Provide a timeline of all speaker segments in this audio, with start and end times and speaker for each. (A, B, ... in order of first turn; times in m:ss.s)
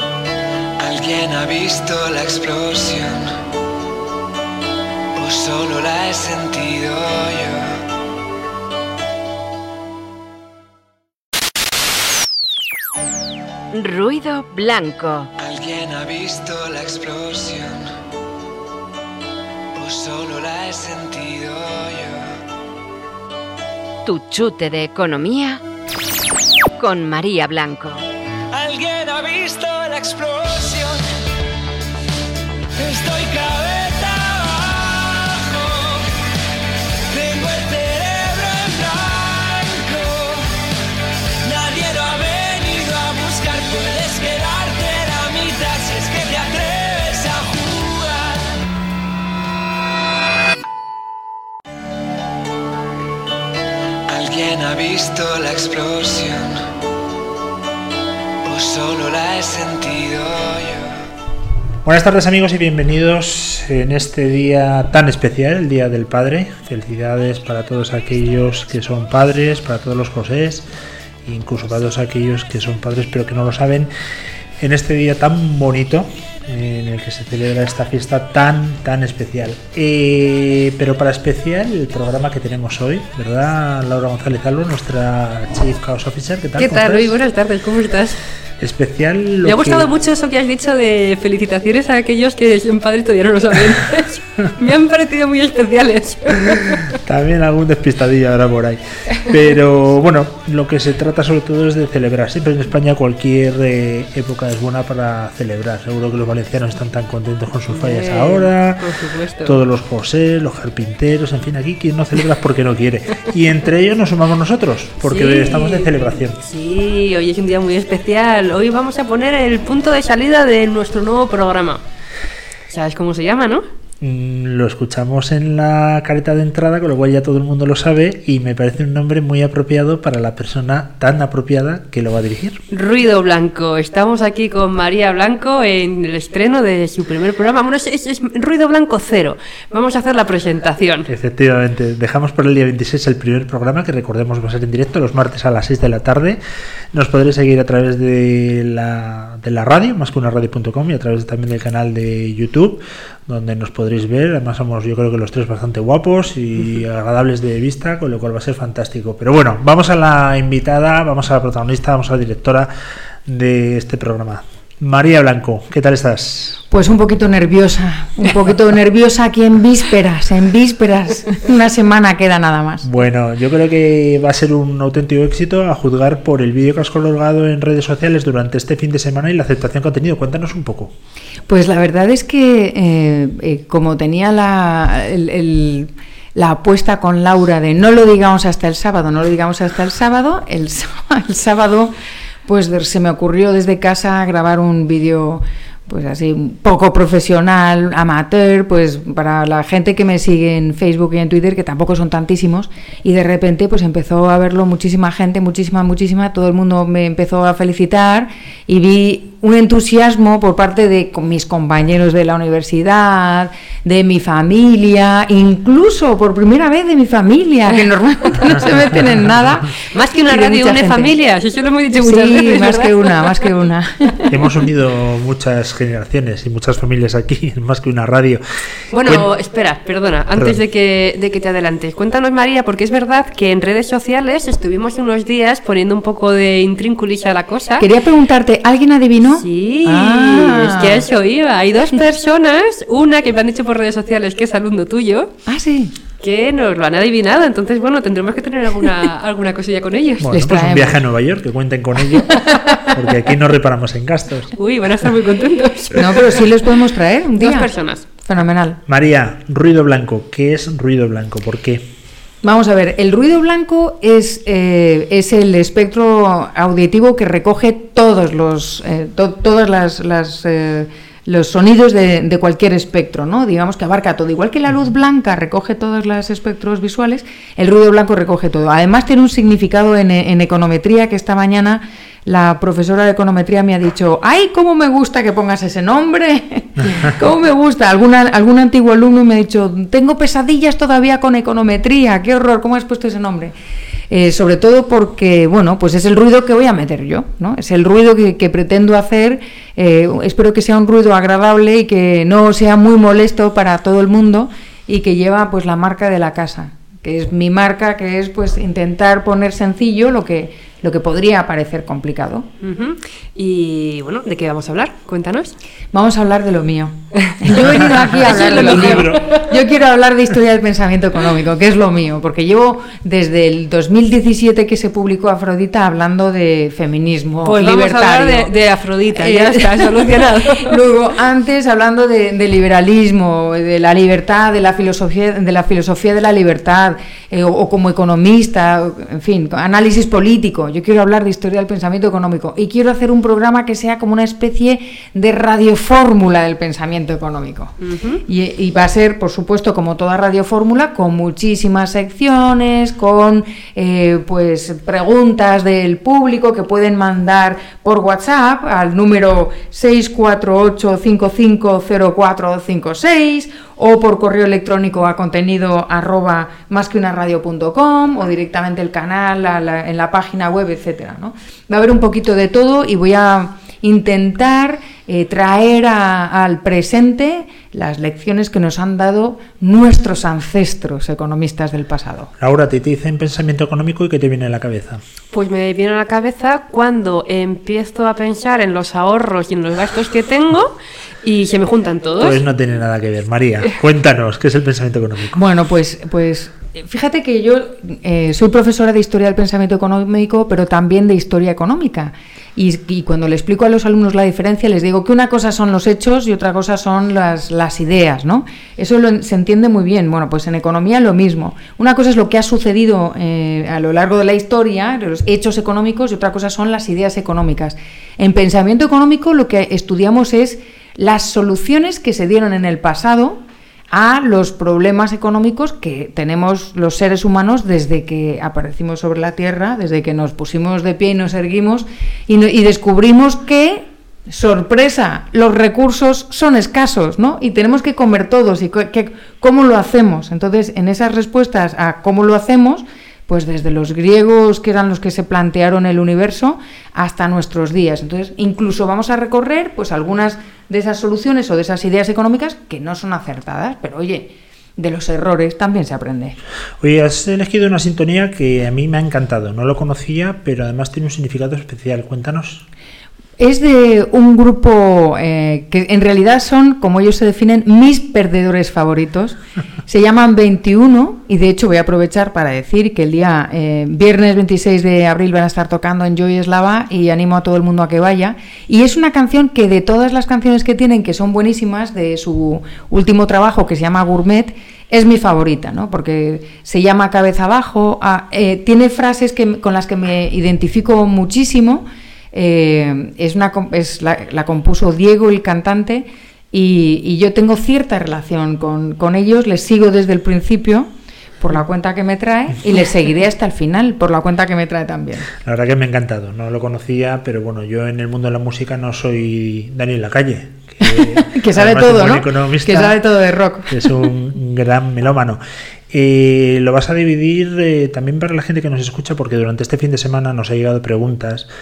0:00.8-0:03.3 A
0:05.2-0:07.8 A
0:13.7-0:15.3 B
0:15.4-0:17.9 A
0:19.8-0:22.3 A
0:24.1-0:25.6 B
0:26.8-0:28.0 B
0:28.5-0:31.0 A
0:32.8-0:36.1 A
0:37.1-0:40.6 A
0:41.4-0:48.5 A
0:54.1-0:56.6 A
0:58.4-1:01.0 A
1:01.8-1:10.7 C
1:11.2-1:13.9 C
1:14.6-1:27.2 C
1:26.6-1:28.2 D
1:28.6-1:29.9 C
1:29.4-1:37.0 D
1:37.0-1:48.9 C
1:47.7-1:49.6 D
1:49.4-1:56.4 C
1:55.0-2:01.8 D
2:02.7-2:03.6 D
2:04.0-2:12.6 C
2:12.7-2:21.1 D
2:21.1-2:26.4 C
2:26.9-2:42.7 C
2:43.3-2:46.6 C
2:46.7-2:52.9 E
2:52.8-3:00.9 C
3:01.5-3:11.9 E
3:12.5-3:41.1 E
3:39.9-3:43.5 D
3:41.9-3:44.4 E
3:44.3-3:48.4 C
3:48.9-3:57.9 D
3:49.0-3:49.3 C
3:50.4-3:50.6 C
3:57.8-4:01.0 E
3:59.3-4:05.3 D
4:05.5-4:05.9 E
4:06.2-4:10.3 D
4:10.2-4:14.5 C
4:10.3-4:11.0 E
4:12.4-4:12.9 E
4:14.6-4:16.4 D
4:16.0-4:18.8 E
4:17.4-4:18.1 D
4:18.9-4:21.9 C
4:22.4-4:53.5 E
4:54.1-5:12.5 E
5:12.6-5:15.5 D
5:15.9-5:28.5 E
5:17.3-5:19.4 D
5:18.2-5:19.3 C
5:27.4-5:30.8 D
5:29.2-5:47.7 E
5:47.8-5:48.2 D
5:48.3-6:22.3 E
6:22.4-6:25.0 C
6:25.3-6:32.4 D
6:32.2-6:35.4 C
6:35.4-7:36.4 E
7:36.8-7:42.6 C
7:43.4-8:20.9 E
8:21.4-8:25.3 E
8:25.4-8:33.0 C
8:31.0-8:34.1 E
8:33.7-8:41.5 C